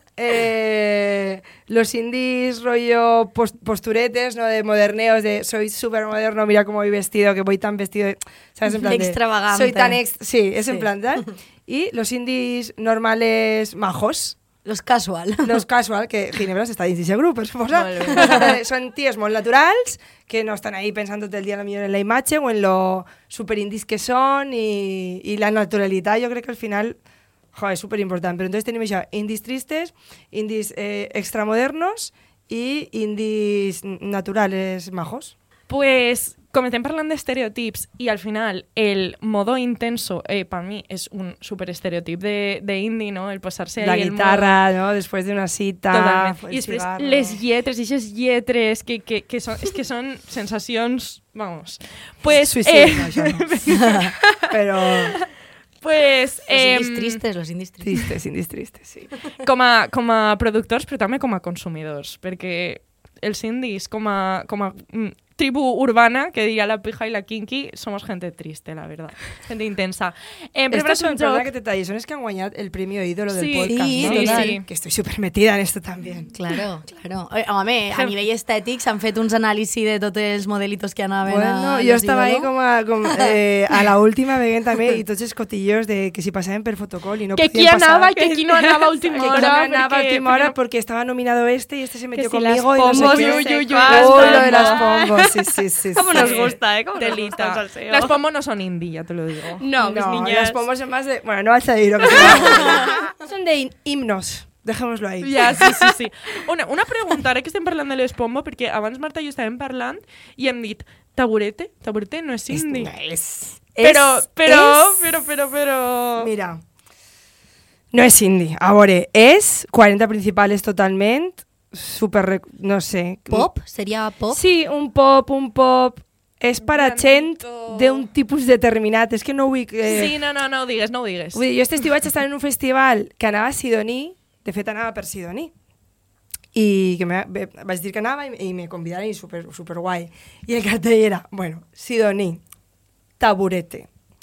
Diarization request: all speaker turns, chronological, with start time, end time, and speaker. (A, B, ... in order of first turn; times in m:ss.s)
0:00.2-0:14.4 A
0:08.7-0:10.0 B
0:14.6-0:15.6 B
0:15.4-0:27.0 A
0:17.7-0:18.5 B
0:27.5-0:35.3 A
0:35.7-0:44.6 C
0:43.8-0:47.4 A
0:45.9-0:54.2 C
0:52.3-0:53.7 A
0:54.5-0:55.2 A
0:55.8-0:57.2 C
0:56.5-0:57.9 B
0:57.8-0:59.2 A
0:59.4-1:11.5 C
1:10.7-1:16.3 A
1:13.3-1:14.7 C
1:13.7-1:14.6 B
1:16.3-1:22.5 B
1:21.2-1:28.1 A
1:27.4-1:30.6 C
1:28.2-1:29.6 D
1:29.2-1:36.6 A
1:32.2-1:35.3 D
1:32.8-1:34.9 C
1:36.0-1:38.2 D
1:36.1-1:39.6 C
1:39.6-1:40.6 D
1:39.8-1:45.8 A
1:42.0-1:43.0 D
1:45.2-1:52.9 C
1:52.5-1:54.9 A
1:53.8-1:56.3 C
1:56.2-1:56.6 A
1:57.9-2:03.5 A
2:03.3-2:04.4 B
2:04.3-2:10.2 A
2:06.6-2:08.1 C
2:09.8-2:11.4 C
2:11.3-2:15.5 A
2:16.5-2:22.4 A
2:23.2-2:23.9 A